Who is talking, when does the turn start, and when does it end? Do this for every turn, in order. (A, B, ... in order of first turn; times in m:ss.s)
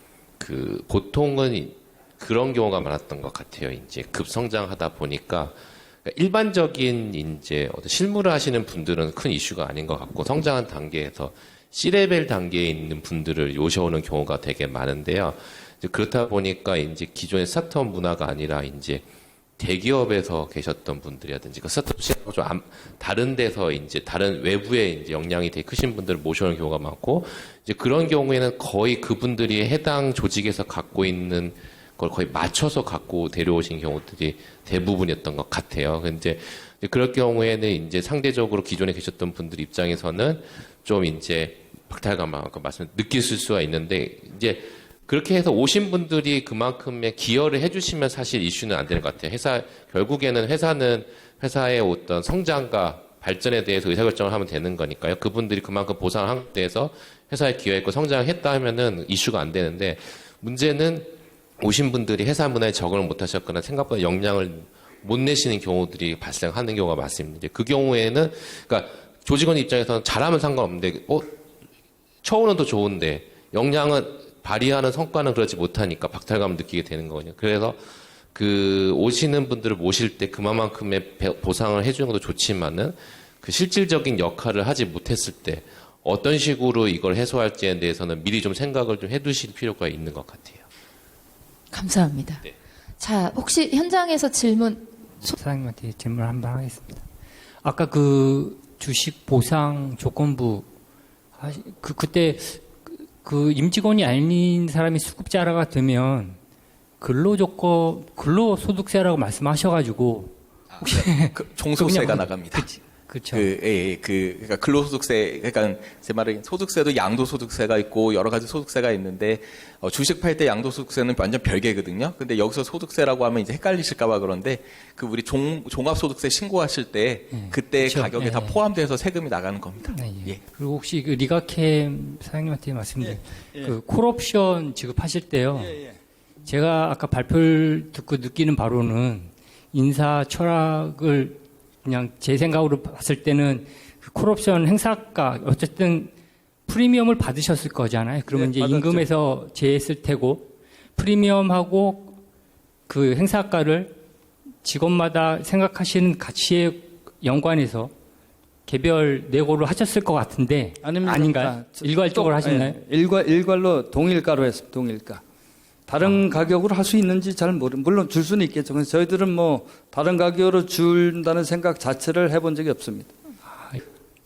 0:00.4-0:19.0 A
0:19.6-1:11.3 A
1:12.2-1:17.8 A
1:18.3-1:30.6 A
1:31.7-1:32.4 B
1:33.0-1:35.3 B
1:35.3-1:37.0 C
1:37.6-1:40.7 C
1:41.4-1:46.4 C
1:47.0-1:53.5 C
1:50.7-1:52.7 D
1:53.3-2:10.4 D
2:07.3-2:08.6 C
2:09.9-2:15.8 C
2:13.0-2:13.7 E
2:15.5-2:16.0 E
2:16.4-2:26.1 C
2:26.7-2:32.2 C
2:28.3-2:29.1 E
2:32.9-2:34.0 C
2:34.6-2:37.9 C
2:38.6-2:42.8 C
2:40.8-2:45.2 E
2:45.9-2:53.1 E
2:53.5-2:53.8 C